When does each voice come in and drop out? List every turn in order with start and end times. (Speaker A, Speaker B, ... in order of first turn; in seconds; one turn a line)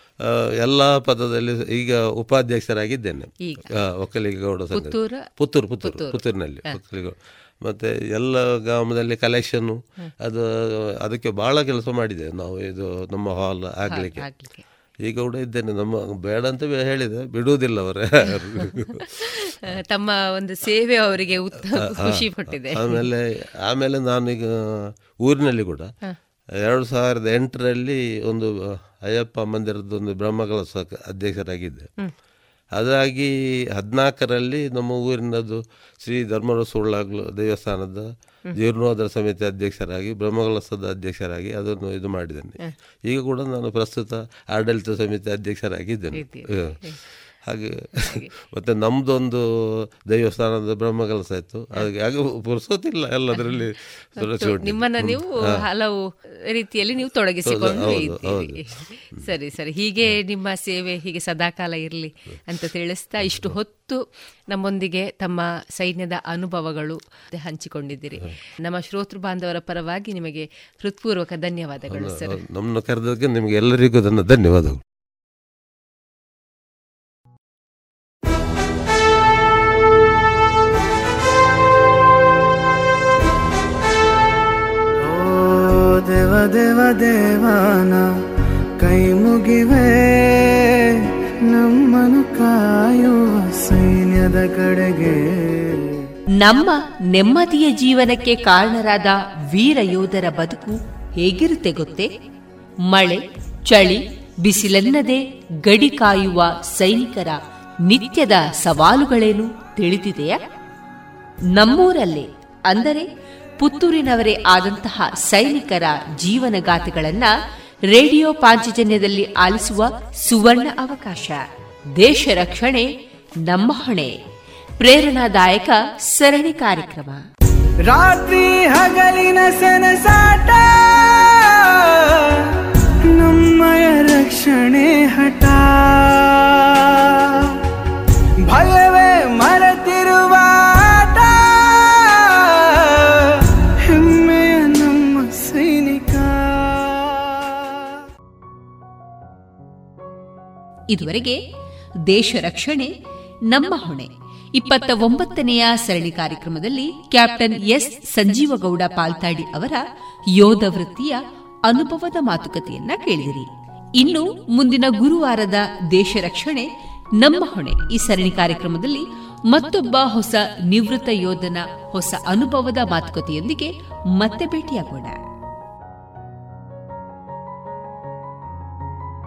Speaker A: 0.2-10.5
Speaker B: 4.7-5.3
Speaker B: 5.8-6.8
Speaker A: 11.0-14.2
Speaker B: 13.9-14.6
Speaker A: 15.0-19.1
Speaker B: 19.0-23.1
Speaker A: 21.8-25.9
Speaker A: 26.6-31.9
Speaker A: 32.8-42.6
Speaker A: 43.1-46.8
Speaker B: 46.2-47.0
Speaker A: 47.5-49.4
Speaker B: 48.0-48.3
Speaker A: 50.1-55.2
Speaker B: 54.2-56.0
Speaker B: 56.5-72.4
Speaker A: 57.5-58.6
Speaker A: 71.9-74.8
Speaker C: 85.0-88.0
Speaker C: 88.8-90.3
Speaker C: 91.5-95.8
Speaker D: 96.4-102.1
Speaker D: 102.9-110.4
Speaker D: 111.5-113.1
Speaker D: 113.6-117.3
Speaker D: 117.9-121.4
Speaker D: 122.0-122.9
Speaker D: 123.5-124.1
Speaker D: 124.8-127.2
Speaker E: 127.9-132.2
Speaker E: 133.2-136.6
Speaker E: 138.4-143.1
Speaker E: 143.9-146.9
Speaker D: 150.9-151.4
Speaker D: 152.1-152.9
Speaker D: 153.5-159.8
Speaker D: 160.3-166.7
Speaker D: 167.2-175.2